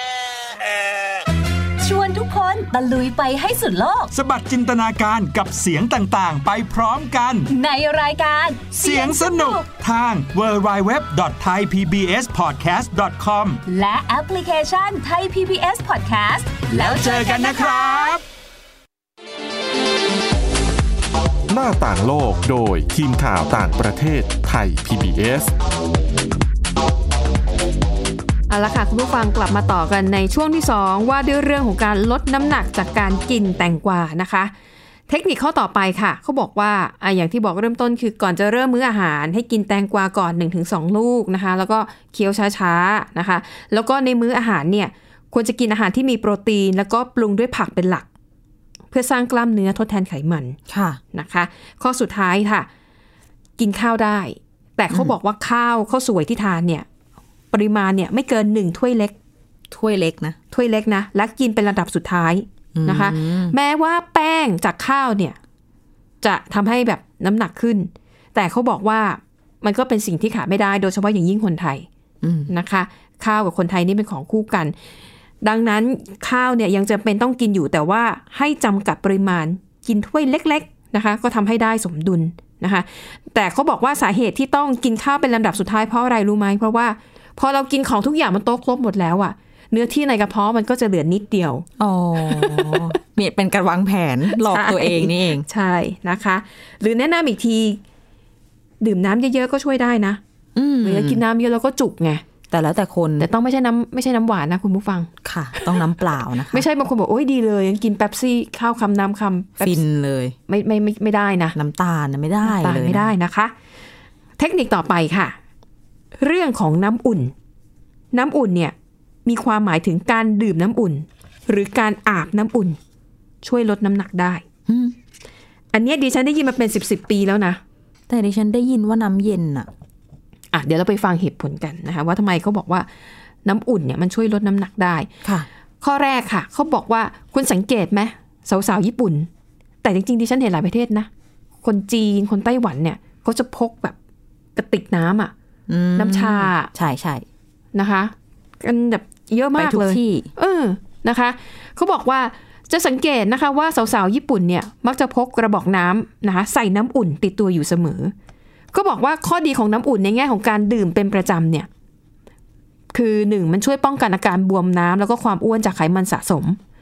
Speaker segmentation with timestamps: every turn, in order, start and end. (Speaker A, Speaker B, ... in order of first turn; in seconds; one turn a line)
Speaker A: 1.8-4.1
Speaker B: 4.1-7.5
Speaker A: 7.5-9.7
Speaker B: 8.7-13.6
Speaker A: 13.7-18.1
Speaker B: 16.7-18.2
Speaker C: 21.5-25.5
Speaker D: 28.5-34.5
Speaker D: 35.1-48.1
Speaker D: 48.9-50.6
Speaker E: 50.7-51.0
Speaker D: 51.1-52.7
Speaker D: 53.6-56.9
Speaker D: 57.5-59.1
Speaker E: 59.7-60.4
Speaker D: 60.5-65.4
Speaker E: 62.7-63.5
Speaker D: 66.2-71.9
Speaker E: 72.2-72.5
Speaker D: 72.5-74.7
Speaker D: 75.4-91.7
Speaker E: 91.8-95.5
Speaker D: 92.2-93.0
Speaker D: 94.3-97.8
Speaker D: 98.8-100.2
Speaker E: 100.6-101.2
Speaker D: 100.8-102.2
Speaker E: 102.5-103.3
Speaker D: 103.2-105.8
Speaker E: 105.2-106.7
Speaker D: 106.5-109.8
Speaker E: 109.6-110.4
Speaker D: 110.5-111.6
Speaker E: 111.5-113.1
Speaker D: 112.4-113.5
Speaker D: 114.4-115.4
Speaker D: 116.2-117.3
Speaker D: 118.1-118.7
Speaker D: 119.3-122.8
Speaker D: 123.4-124.4
Speaker E: 124.7-125.0
Speaker D: 125.7-127.6
Speaker E: 128.1-129.7
Speaker D: 130.5-132.9
Speaker D: 133.4-135.1
Speaker D: 135.8-139.3
Speaker D: 139.8-141.1
Speaker D: 141.6-144.0
Speaker D: 144.6-145.3
Speaker E: 145.7-147.2
Speaker D: 146.0-146.7
Speaker D: 147.8-158.1
Speaker E: 149.6-150.3
Speaker D: 158.7-161.7
Speaker D: 162.9-166.6